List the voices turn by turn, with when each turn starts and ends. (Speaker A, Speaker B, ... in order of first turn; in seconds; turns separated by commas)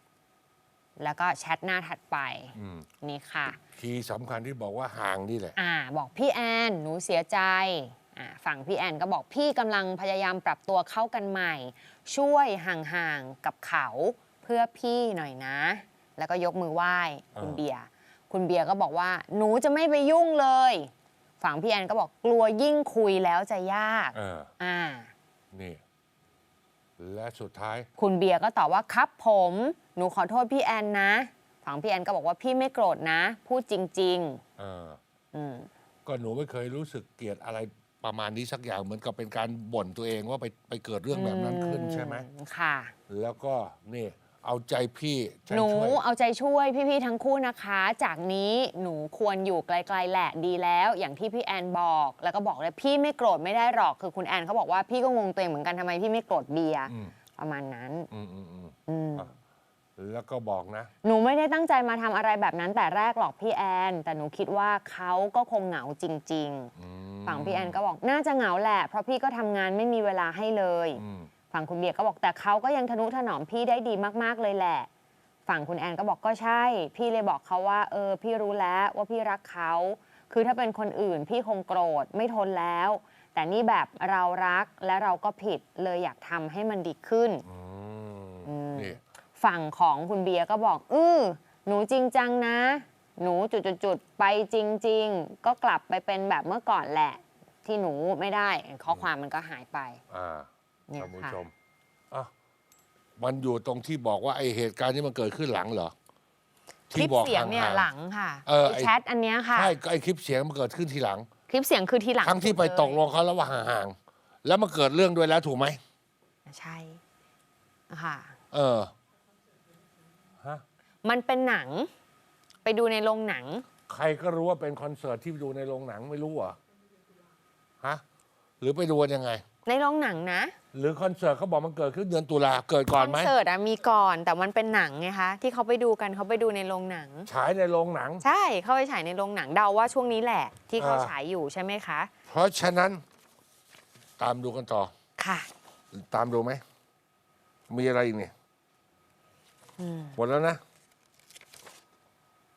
Speaker A: 1.0-3.6, Speaker B: 2.5-2.9, Speaker B: 3.7-5.5, Speaker A: 5.5-25.1, Speaker B: 17.3-17.6, Speaker B: 24.1-24.5, Speaker B: 25.5-25.8, Speaker B: 27.0-27.9, Speaker A: 28.0-34.4, Speaker B: 34.6-35.0, Speaker A: 35.3-35.7, Speaker B: 36.0-42.3, Speaker A: 41.1-42.9, Speaker B: 43.1-46.0, Speaker A: 45.5-58.1, Speaker B: 56.9-57.1, Speaker B: 58.1-59.3, Speaker A: 58.9-59.3, Speaker B: 60.0-60.9, Speaker A: 61.0-66.7, Speaker B: 66.8-67.8, Speaker A: 67.2-74.9, Speaker B: 71.0-71.3, Speaker A: 75.5-87.4, Speaker B: 87.5-89.0, Speaker A: 88.4-100.0, Speaker B: 100.1-101.5, Speaker A: 100.9-101.4, Speaker B: 103.2-105.9, Speaker B: 106.9-107.9, Speaker A: 106.9-109.8, Speaker B: 108.5-108.9, Speaker B: 109.5-111.3, Speaker A: 111.5-113.0, Speaker B: 112.2-115.8, Speaker A: 116.5-117.0, Speaker A: 117.9-118.3, Speaker B: 118.5-118.9, Speaker A: 121.0-121.9, Speaker A: 122.6-123.7, Speaker B: 123.9-126.6, Speaker B: 128.6-129.4, Speaker A: 129.7-130.5, Speaker B: 130.7-133.3, Speaker A: 132.9-137.3, Speaker B: 137.3-138.2, Speaker A: 138.2-142.1, Speaker B: 140.8-141.1, Speaker B: 142.3-143.0, Speaker B: 144.2-144.9, Speaker A: 145.2-145.5, Speaker B: 145.9-146.6, Speaker B: 147.7-148.3, Speaker A: 149.8-150.2, Speaker B: 150.2-150.6